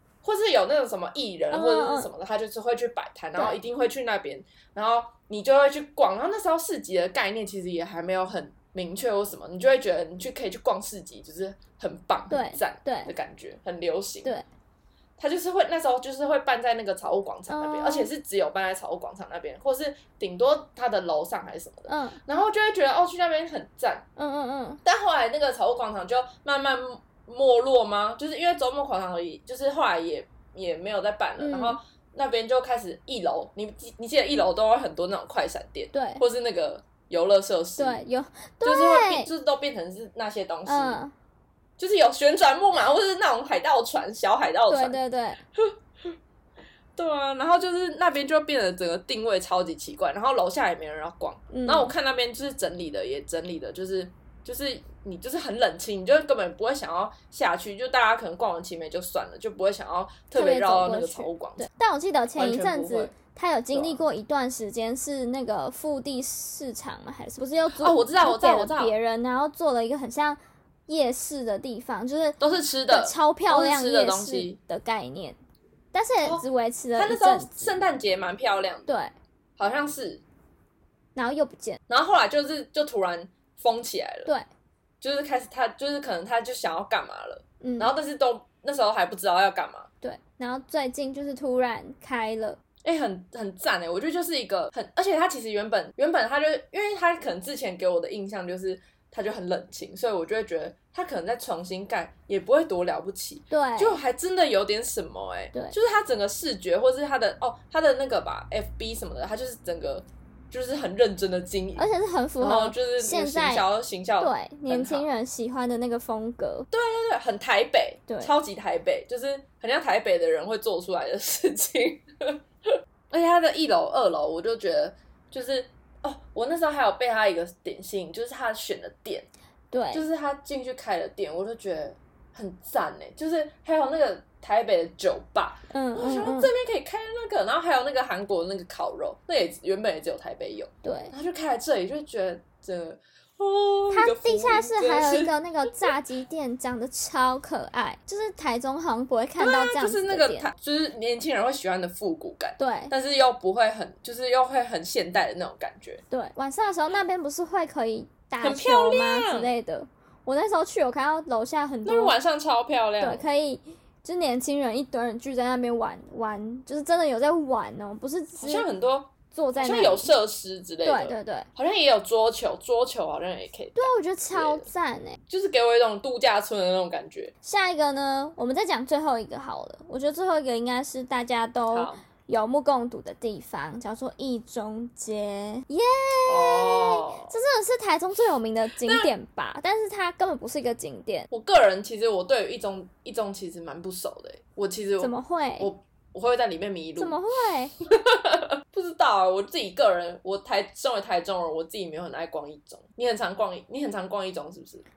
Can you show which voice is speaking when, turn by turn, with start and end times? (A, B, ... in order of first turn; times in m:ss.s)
0:00.2-0:14.3 A
0:01.5-0:02.1 B
0:12.3-0:13.1 B
0:15.2-0:24.1 A
0:17.5-0:18.1 B
0:21.9-0:22.2 B
0:24.2-0:24.8 B
0:24.8-0:38.0 A
0:31.4-0:31.8 B
0:35.9-0:36.2 B
0:37.8-0:39.3 B
0:38.6-0:41.0 A
0:40.7-0:41.1 B
0:41.8-0:45.0 A
0:44.7-0:45.4 B
0:45.6-0:46.1 A
0:47.0-1:01.7 A
0:51.5-0:51.9 B
1:00.3-1:12.4 B
1:02.4-1:03.1 A
1:03.7-1:04.0 A
1:07.8-1:08.9 A
1:12.4-1:14.6 A
1:12.9-1:15.4 B
1:15.9-1:17.7 B
1:17.0-1:18.9 A
1:18.9-1:19.1 B
1:19.6-1:20.2 A
1:21.2-1:21.8 B
1:21.9-1:24.3 A
1:25.0-1:29.9 A
1:27.6-1:27.9 B
1:30.0-1:32.6 B
1:32.8-1:51.9 A
1:43.5-1:44.0 B
1:51.8-1:53.6 B
1:52.4-1:55.1 A
1:54.2-1:56.7 B
1:56.7-2:02.4 A
2:03.1-2:09.3 A
2:09.7-2:10.1 B
2:09.9-2:25.3 A
2:15.7-2:16.5 B
2:20.8-2:21.1 B
2:23.9-2:30.5 B
2:29.4-2:36.0 A
2:32.6-2:32.9 B
2:36.1-2:42.1 B
2:38.4-2:39.5 A
2:41.8-2:43.2 A
2:43.0-2:48.7 B
2:48.4-2:54.7 A
2:49.3-2:50.1 B
2:50.8-2:51.5 B
2:53.8-2:55.2 B
2:55.3-2:57.3 A
2:57.4-3:11.3 B
3:01.7-3:02.0 A
3:06.3-3:07.3 A
3:08.8-3:09.1 A
3:11.3-3:17.2 A
3:15.0-3:15.7 B
3:17.0-3:17.7 B
3:17.9-3:24.8 A